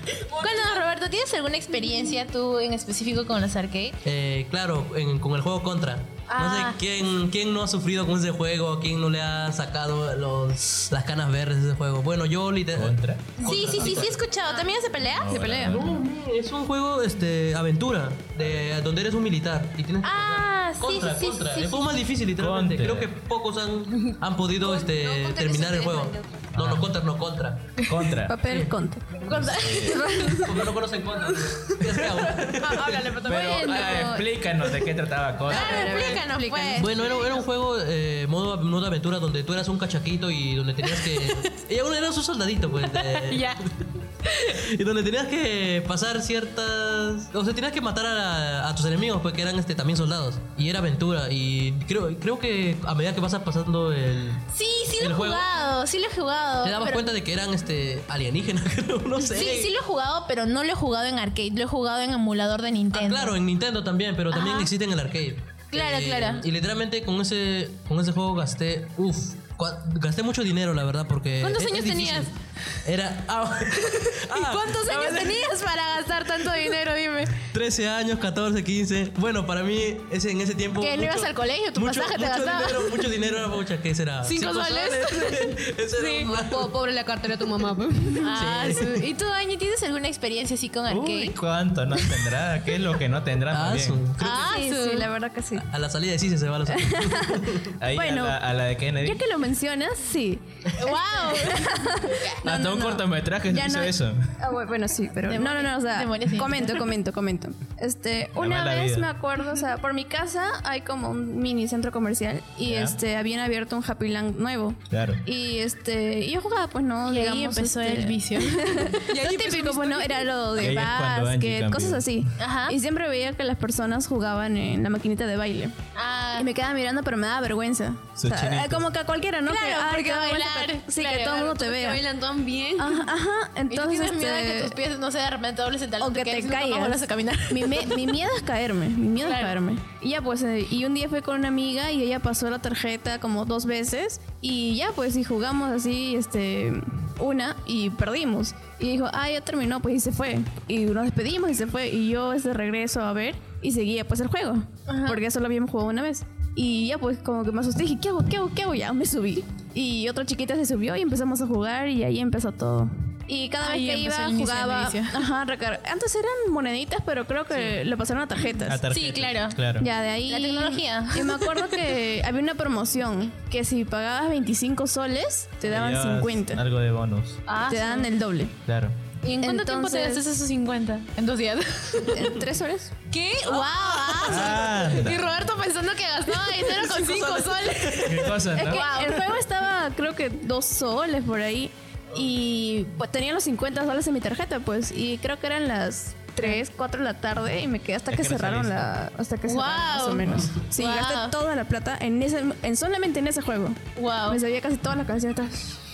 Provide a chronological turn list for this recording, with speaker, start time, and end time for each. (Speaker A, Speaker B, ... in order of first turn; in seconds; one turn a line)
Speaker A: 0.3-0.9
Speaker B: 0.4-4.0
Speaker C: 4.0-14.3
Speaker B: 6.3-6.8
Speaker D: 12.8-13.3
Speaker B: 13.4-15.4
Speaker D: 15.2-16.1
Speaker E: 15.3-15.8
Speaker C: 15.7-27.8
Speaker B: 20.0-21.9
Speaker D: 22.4-23.1
Speaker A: 24.0-26.6
Speaker D: 26.6-26.9
Speaker D: 27.9-28.3
Speaker E: 28.2-30.6
Speaker C: 29.2-29.5
Speaker D: 29.3-30.1
Speaker B: 29.3-30.1
Speaker C: 30.5-33.2
Speaker A: 32.6-33.9
Speaker D: 33.2-36.2
Speaker B: 33.3-34.3
Speaker E: 33.6-34.1
Speaker B: 35.5-37.1
Speaker E: 35.5-36.9
Speaker C: 36.8-43.6
Speaker B: 42.9-43.6
Speaker B: 44.2-44.6
Speaker C: 44.5-54.4
Speaker B: 54.5-57.1
Speaker C: 55.0-55.7
Speaker C: 56.6-59.7
Speaker B: 59.2-63.4
Speaker C: 62.9-72.3
Speaker B: 64.3-64.7
Speaker B: 65.7-66.5
Speaker B: 71.4-72.3
Speaker C: 72.8-75.5
Speaker B: 74.3-77.4
Speaker C: 77.5-86.7
Speaker B: 80.8-83.2
Speaker B: 84.2-85.5
Speaker A: 86.0-88.3
Speaker B: 88.2-91.4
Speaker C: 88.3-89.1
Speaker D: 90.9-94.0
Speaker C: 93.5-94.3
Speaker B: 94.2-95.1
Speaker E: 94.3-95.7
Speaker C: 95.5-97.7
Speaker E: 96.7-97.3
Speaker D: 97.8-99.2
Speaker E: 97.9-98.4
Speaker E: 99.0-125.7
Speaker B: 100.8-101.7
Speaker D: 102.4-104.2
Speaker B: 105.3-106.8
Speaker D: 108.4-109.1
Speaker D: 112.6-113.0
Speaker D: 114.9-115.2
Speaker B: 117.0-119.0
Speaker A: 119.1-120.3
Speaker D: 120.6-122.2
Speaker B: 122.4-122.8
Speaker B: 125.9-126.5
Speaker E: 126.4-132.0
Speaker D: 128.2-128.9
Speaker B: 129.5-131.6
Speaker A: 131.5-133.1
Speaker E: 132.8-134.8
Speaker B: 133.7-138.2
Speaker E: 136.0-168.8
Speaker B: 139.2-139.6
Speaker B: 154.9-155.2
Speaker B: 163.6-165.2
Speaker D: 168.7-169.9
Speaker B: 168.9-169.6
Speaker E: 169.8-176.6
Speaker B: 170.3-171.8
Speaker D: 175.6-177.4
Speaker B: 177.5-178.1
Speaker E: 177.7-178.6
Speaker D: 178.7-179.0
Speaker B: 179.2-182.3
Speaker E: 179.4-180.2
Speaker E: 182.1-182.9
Speaker B: 183.1-189.4
Speaker D: 184.3-185.2
Speaker C: 187.0-187.5
Speaker D: 188.1-189.2
Speaker E: 188.6-205.7
Speaker B: 196.4-196.6
Speaker D: 198.1-198.9
Speaker B: 199.5-201.3
Speaker B: 204.0-204.4